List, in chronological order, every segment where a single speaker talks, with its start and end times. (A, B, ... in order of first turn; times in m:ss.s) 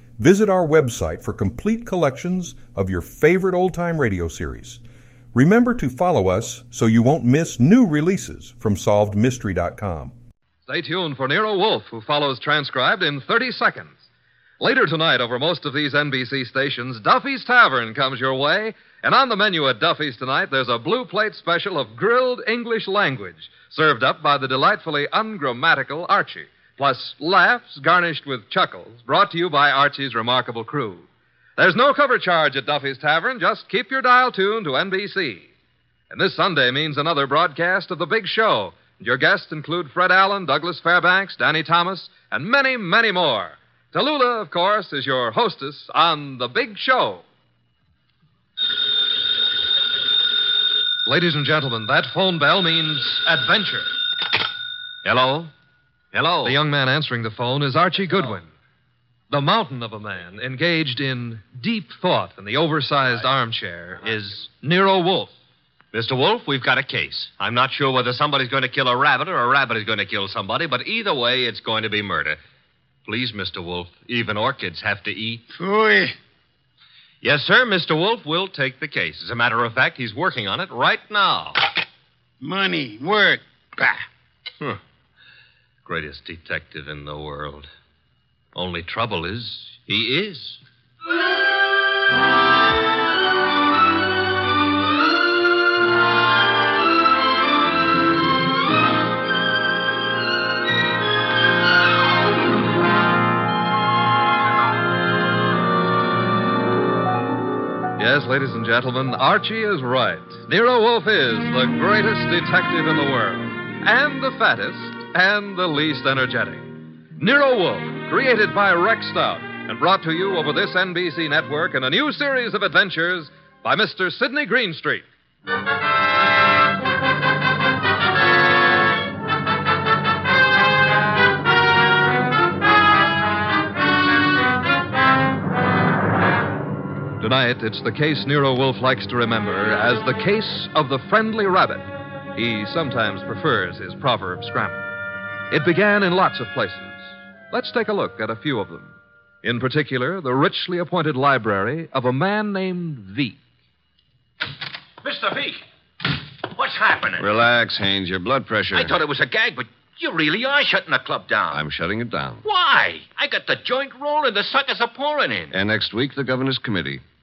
0:00.2-0:04.8 A
0:05.3-0:10.1 A
0:10.7-0:13.9 B
0:14.6-0:35.5 B
0:36.1-0:47.2 B
0:51.1-0:53.9 B
0:55.0-0:55.5 C
0:56.1-0:56.6 C
0:56.4-0:58.5 B
0:59.3-1:05.3 B
1:05.9-1:12.4 C
1:13.1-1:15.4 C
1:15.5-1:16.1 D
1:17.2-1:21.6 C
1:22.4-1:24.1 D
1:25.8-1:27.7 C
1:28.6-1:30.6 C
1:48.0-2:05.0 B
2:17.2-2:24.9 B
2:25.5-2:33.4 B
2:35.0-2:35.6 E
2:36.5-2:37.3 E
2:37.2-2:38.9 F
2:38.7-2:41.6 E
2:41.5-2:42.4 F
2:42.4-2:45.6 E
2:45.5-2:47.0 F